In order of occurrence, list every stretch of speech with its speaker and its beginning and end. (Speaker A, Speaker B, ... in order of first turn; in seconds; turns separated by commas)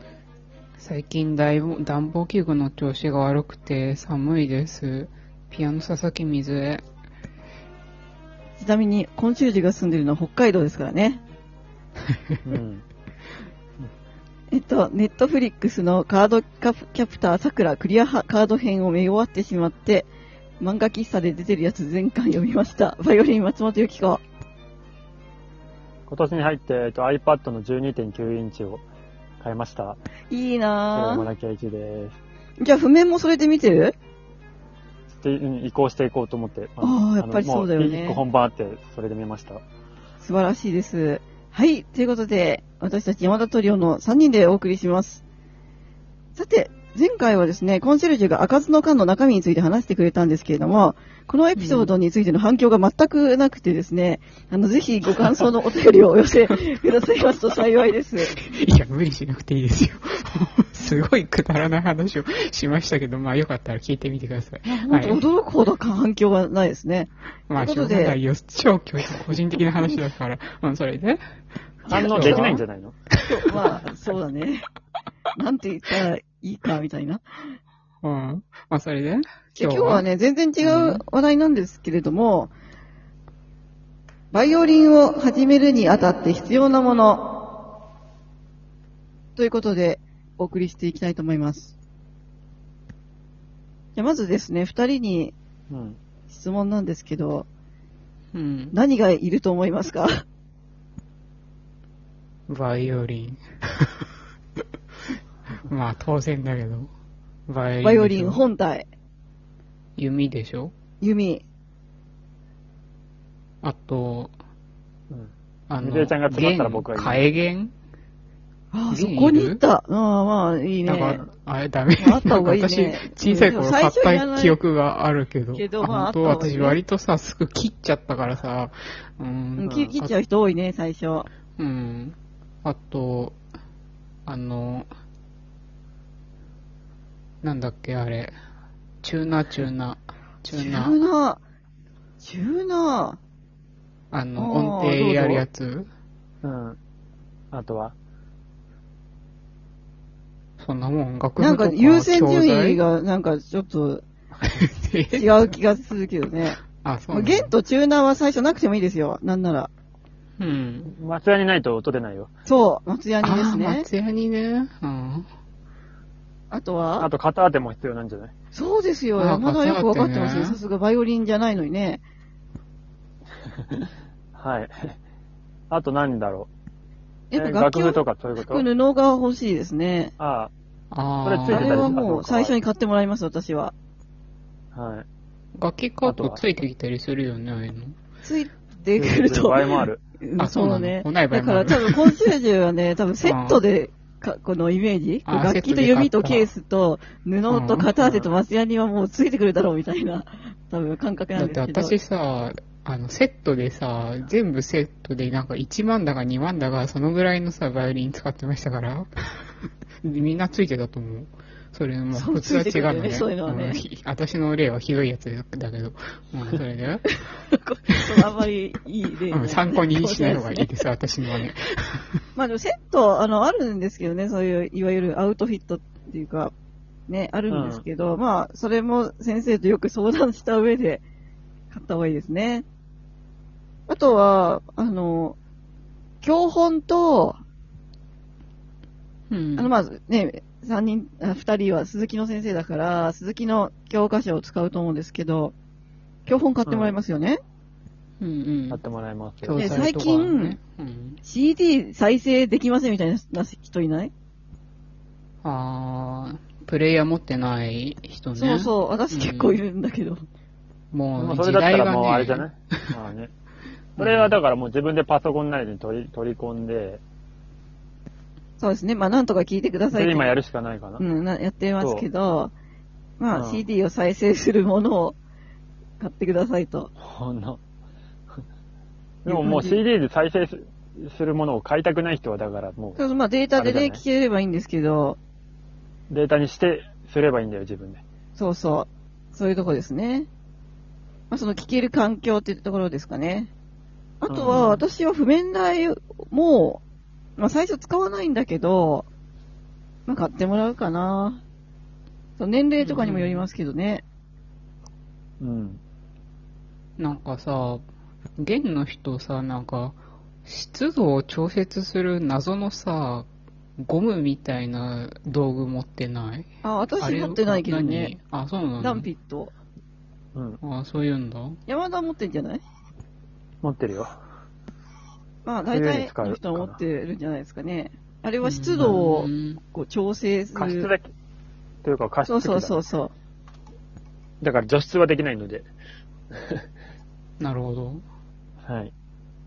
Speaker A: 0.8-6.8, Speaker B: 8.6-11.2, Speaker C: 12.5-12.8, Speaker B: 14.5-20.1, Speaker B: 20.6-24.2, Speaker C: 26.1-28.8, Speaker C: 29.4-30.0, Speaker B: 30.3-31.3, Speaker C: 30.9-32.2, Speaker B: 32.6-34.0, Speaker C: 35.1-39.6, Speaker B: 36.8-38.2, Speaker B: 40.2-45.2, Speaker B: 46.3-58.4, Speaker A: 51.6-51.9, Speaker A: 55.1-55.4, Speaker A: 58.3-65.3, Speaker B: 64.6-68.2, Speaker A: 67.5-73.3, Speaker C: 71.9-73.0, Speaker B: 72.0-72.6, Speaker B: 73.3-74.6, Speaker B: 75.4-77.2, Speaker A: 78.0-80.1, Speaker B: 79.6-82.5, Speaker A: 80.6-81.0, Speaker B: 84.3-87.3, Speaker B: 89.4-91.7, Speaker B: 94.0-95.3, Speaker C: 95.7-96.0, Speaker B: 96.3-97.5, Speaker A: 98.3-98.8, Speaker B: 98.7-100.2, Speaker A: 102.5-104.1, Speaker A: 105.7-106.9, Speaker A: 107.5-108.4, Speaker B: 107.8-108.9, Speaker A: 110.0-110.7, Speaker B: 111.0-111.4, Speaker A: 113.6-114.3, Speaker C: 115.1-117.2, Speaker A: 115.7-117.7, Speaker B: 118.7-121.2, Speaker A: 118.9-119.6, Speaker A: 120.9-130.1, Speaker B: 122.0-124.6, Speaker B: 125.5-126.8, Speaker B: 129.6-131.3, Speaker C: 129.7-129.9, Speaker A: 131.6-133.4, Speaker A: 134.2-134.9, Speaker A: 137.4-138.3, Speaker A: 139.0-141.0, Speaker B: 140.5-141.4, Speaker B: 142.2-143.2, Speaker A: 144.1-145.9, Speaker B: 144.4-145.4, Speaker C: 146.4-146.8, Speaker C: 147.5-147.9, Speaker A: 150.6-152.8, Speaker B: 151.4-154.1, Speaker A: 154.5-155.5, Speaker B: 155.1-156.6, Speaker A: 156.8-157.5, Speaker B: 157.1-159.7, Speaker A: 160.4-160.9, Speaker C: 160.9-162.3, Speaker B: 162.5-163.9, Speaker A: 163.2-165.3, Speaker B: 166.5-167.1, Speaker C: 167.0-168.3, Speaker B: 168.5-172.0, Speaker A: 169.2-170.6, Speaker C: 173.7-175.0, Speaker C: 175.7-176.5, Speaker B: 177.3-180.1, Speaker C: 177.3-178.7, Speaker C: 180.2-180.5, Speaker A: 180.9-182.0, Speaker C: 181.2-182.6, Speaker B: 181.5-183.8, Speaker C: 184.7-185.1, Speaker A: 185.6-187.9, Speaker C: 186.0-186.4, Speaker B: 188.2-201.9, Speaker C: 189.0-190.0, Speaker A: 190.4-192.0, Speaker A: 193.2-193.6, Speaker A: 195.2-196.5, Speaker A: 197.5-197.9, Speaker C: 198.0-198.3, Speaker A: 201.4-209.5, Speaker A: 210.0-217.1, Speaker B: 212.1-213.8, Speaker B: 217.1-220.8, Speaker A: 219.3-222.1, Speaker B: 222.3-226.5, Speaker B: 227.1-231.0, Speaker C: 227.5-227.8, Speaker B: 231.7-232.7, Speaker B: 233.9-235.4, Speaker B: 236.2-237.4, Speaker A: 239.3-239.7, Speaker B: 239.6-245.6, Speaker B: 246.2-247.4, Speaker C: 246.7-246.9, Speaker A: 248.2-248.8, Speaker C: 248.7-249.6, Speaker A: 249.4-251.2, Speaker B: 249.6-250.6, Speaker B: 251.2-254.1, Speaker A: 255.4-259.6, Speaker B: 258.4-260.2, Speaker A: 260.9-262.5, Speaker C: 261.2-263.3, Speaker A: 264.0-264.4, Speaker C: 264.0-267.0, Speaker B: 268.6-270.4, Speaker C: 269.9-271.0, Speaker B: 271.0-272.6, Speaker C: 271.8-272.1, Speaker B: 273.2-275.2, Speaker C: 273.3-273.6, Speaker B: 276.0-276.9, Speaker C: 277.0-277.6, Speaker C: 279.2-283.0, Speaker B: 279.3-279.8, Speaker B: 283.0-285.2, Speaker C: 283.6-284.0, Speaker C: 286.1-288.0, Speaker B: 288.4-290.3, Speaker B: 291.3-293.5, Speaker B: 294.2-296.8, Speaker C: 294.3-294.8, Speaker B: 297.4-299.1, Speaker B: 300.1-301.4, Speaker B: 302.4-304.0, Speaker A: 302.8-303.4, Speaker C: 305.4-305.8, Speaker A: 307.0-307.8, Speaker A: 308.4-316.5, Speaker B: 316.6-318.1, Speaker A: 317.0-319.1, Speaker B: 318.8-319.5, Speaker C: 320.4-320.6, Speaker A: 320.6-321.6, Speaker B: 321.7-322.6, Speaker C: 323.6-324.1, Speaker B: 325.4-330.9, Speaker C: 325.7-326.8, Speaker A: 328.4-329.6, Speaker C: 330.6-331.1, Speaker C: 331.8-332.8, Speaker B: 332.2-333.1, Speaker C: 334.4-335.7, Speaker C: 336.3-336.6, Speaker A: 337.4-338.0, Speaker C: 338.7-338.9